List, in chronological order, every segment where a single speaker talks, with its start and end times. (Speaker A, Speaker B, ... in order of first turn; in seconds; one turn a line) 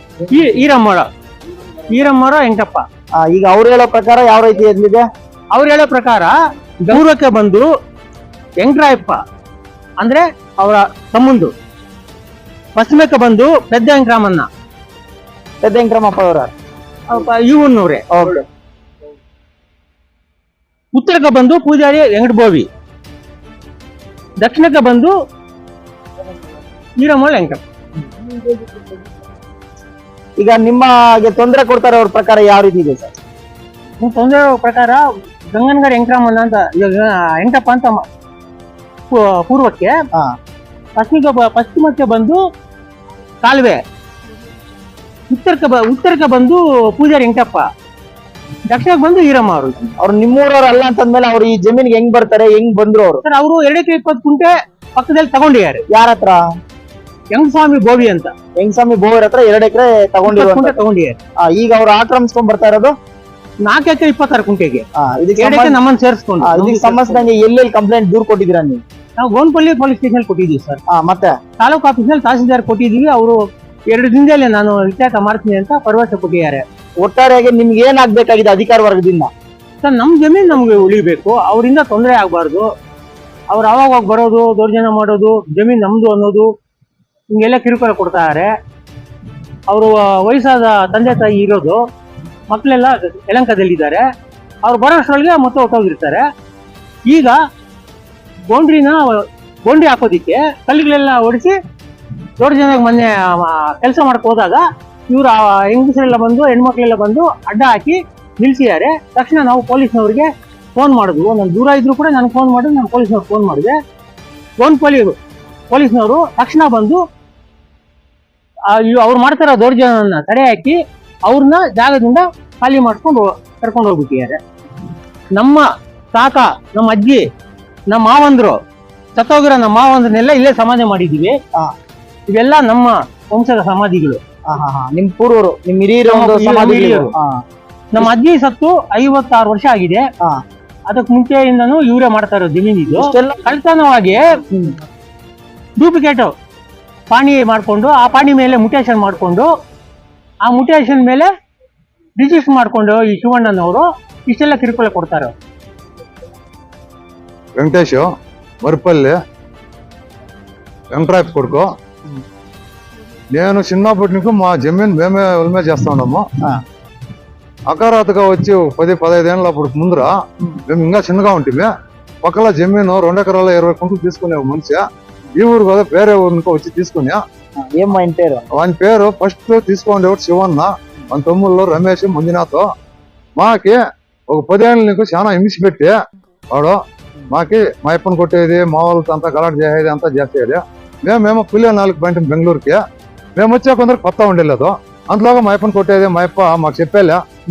Speaker A: 0.3-1.1
Speaker A: 1.9-2.8
Speaker B: 3.2-5.0
Speaker A: 5.5-6.3
Speaker A: 6.8-7.6
Speaker A: 8.6-9.2
Speaker A: 10.0-11.5
Speaker A: 12.7-14.5
Speaker B: 15.6-16.5
Speaker A: 17.1-18.0
Speaker B: 18.1-18.4
Speaker A: 20.9-22.6
Speaker A: 24.4-25.1
Speaker A: 27.0-27.6
Speaker B: 30.4-33.1
Speaker A: 34.0-35.0
Speaker A: 35.5-38.0
Speaker A: 39.1-39.9
Speaker A: 41.0-42.4
Speaker A: 43.4-43.8
Speaker A: 45.3-47.6
Speaker A: 48.7-49.9
Speaker B: 50.0-53.2
Speaker A: 53.2-55.8
Speaker B: 55.9-56.4
Speaker A: 57.3-58.3
Speaker B: 58.6-60.8
Speaker A: 60.3-61.1
Speaker B: 61.4-62.9
Speaker A: 63.6-64.8
Speaker B: 65.0-65.8
Speaker A: 65.4-67.2
Speaker B: 66.4-68.8
Speaker A: 69.2-70.8
Speaker B: 70.9-71.3
Speaker A: 71.6-73.4
Speaker A: 73.9-76.6
Speaker B: 77.0-79.3
Speaker A: 79.8-82.7
Speaker A: 83.5-86.5
Speaker A: 87.3-88.5
Speaker A: 89.7-91.8
Speaker A: 92.5-94.0
Speaker A: 94.6-96.2
Speaker A: 97.1-97.3
Speaker A: 98.5-101.5
Speaker A: 102.4-113.7
Speaker A: 114.6-115.1
Speaker A: 115.7-117.0
Speaker A: 118.7-120.8
Speaker A: 121.3-124.4
Speaker A: 125.3-127.2
Speaker A: 127.9-128.5
Speaker A: 129.2-131.3
Speaker A: 132.3-134.2
Speaker B: 134.5-137.3
Speaker A: 136.1-137.1
Speaker A: 137.9-140.0
Speaker A: 140.9-144.2
Speaker B: 142.9-143.4
Speaker A: 145.8-146.3
Speaker A: 147.1-149.5
Speaker A: 150.4-151.3
Speaker A: 152.2-155.3
Speaker C: 157.6-158.1
Speaker C: 158.6-159.2
Speaker C: 160.9-161.7
Speaker C: 163.3-166.2
Speaker C: 167.7-171.7
Speaker C: 172.2-174.8
Speaker C: 175.3-177.2
Speaker B: 177.6-178.4
Speaker C: 178.5-182.7
Speaker C: 183.4-185.9
Speaker C: 186.5-186.8
Speaker C: 187.3-192.8
Speaker C: 193.3-197.2